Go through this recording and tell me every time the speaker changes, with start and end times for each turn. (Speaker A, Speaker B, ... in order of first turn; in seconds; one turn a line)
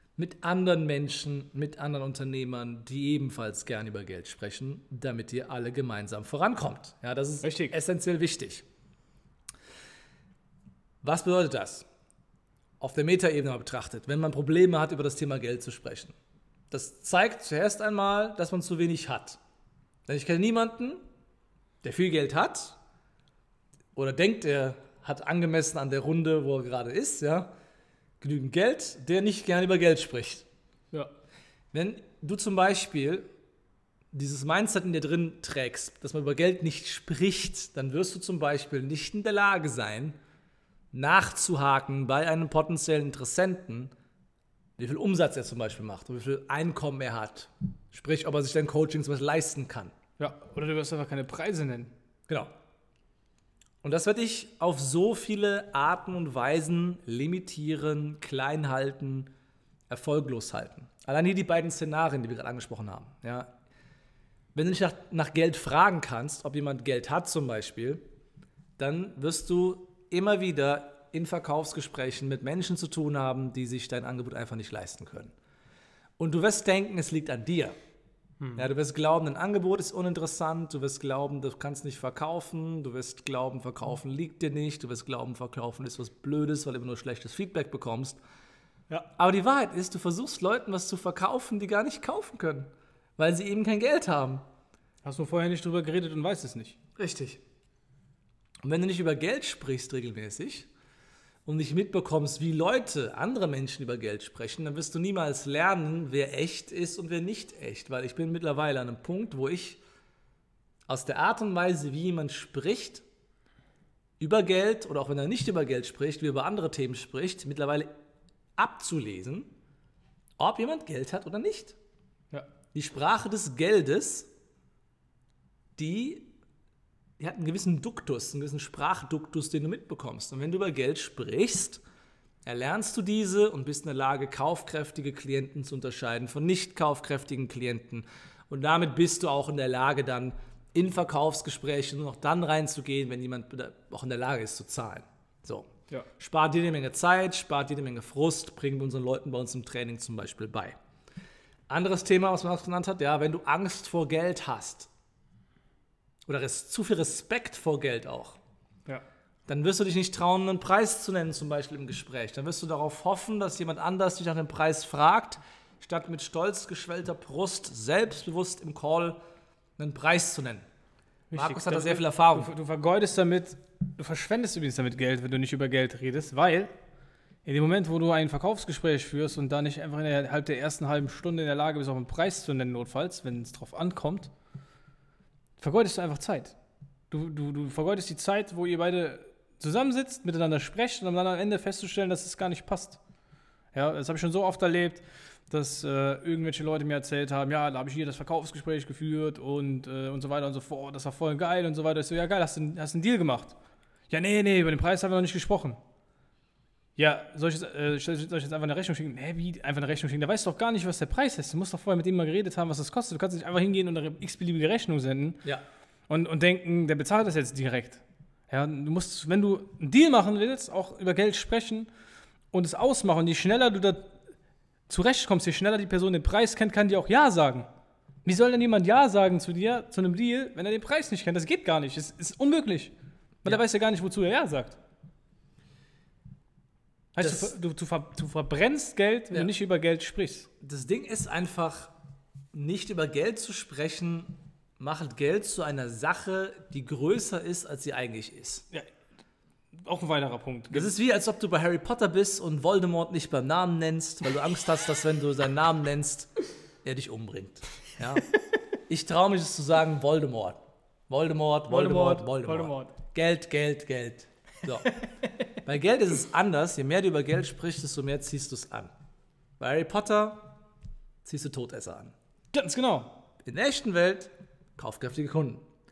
Speaker A: 0.2-8.6
Speaker B: 7.4-7.7
Speaker A: 11.0-11.9
Speaker A: 12.8-16.1
Speaker A: 16.7-19.4
Speaker A: 20.1-21.0
Speaker A: 21.8-22.8
Speaker A: 23.9-27.5
Speaker A: 28.2-30.5
Speaker A: 31.7-33.3
Speaker A: 34.1-40.2
Speaker A: 40.9-43.9
Speaker A: 44.8-49.9
Speaker B: 50.2-51.9
Speaker A: 52.3-52.5
Speaker A: 53.8-59.3
Speaker A: 59.9-63.5
Speaker A: 64.5-68.0
Speaker A: 68.8-75.3
Speaker A: 76.2-77.7
Speaker A: 78.5-88.2
Speaker A: 89.2-94.4
Speaker B: 95.0-97.4
Speaker A: 98.6-100.7
Speaker A: 101.4-109.8
Speaker A: 110.9-113.0
Speaker A: 114.2-117.9
Speaker A: 118.6-119.5
Speaker A: 120.4-121.8
Speaker A: 122.7-124.3
Speaker A: 125.8-126.3
Speaker A: 127.2-131.8
Speaker A: 132.4-150.8
Speaker A: 151.7-154.9
Speaker A: 156.3-158.4
Speaker A: 159.5-169.2
Speaker A: 169.8-170.6
Speaker B: 171.3-176.7
Speaker A: 171.3-172.5
Speaker B: 177.4-184.3
Speaker B: 185.6-186.6
Speaker B: 187.1-193.0
Speaker B: 193.7-203.6
Speaker B: 204.1-205.8
Speaker B: 207.0-215.4
Speaker B: 216.1-221.9
Speaker B: 222.5-224.1
Speaker B: 224.9-227.7
Speaker B: 228.2-232.9
Speaker B: 233.4-234.8
Speaker B: 237.1-240.5
Speaker A: 237.2-237.5
Speaker A: 240.6-241.9
Speaker A: 242.5-248.6
Speaker B: 249.8-250.9
Speaker A: 250.7-256.3
Speaker A: 256.8-258.3
Speaker A: 258.9-264.9
Speaker B: 261.7-262.9
Speaker B: 264.7-265.1
Speaker A: 265.6-268.9
Speaker A: 269.6-270.6
Speaker A: 271.2-272.1
Speaker B: 272.5-273.1
Speaker A: 273.4-275.6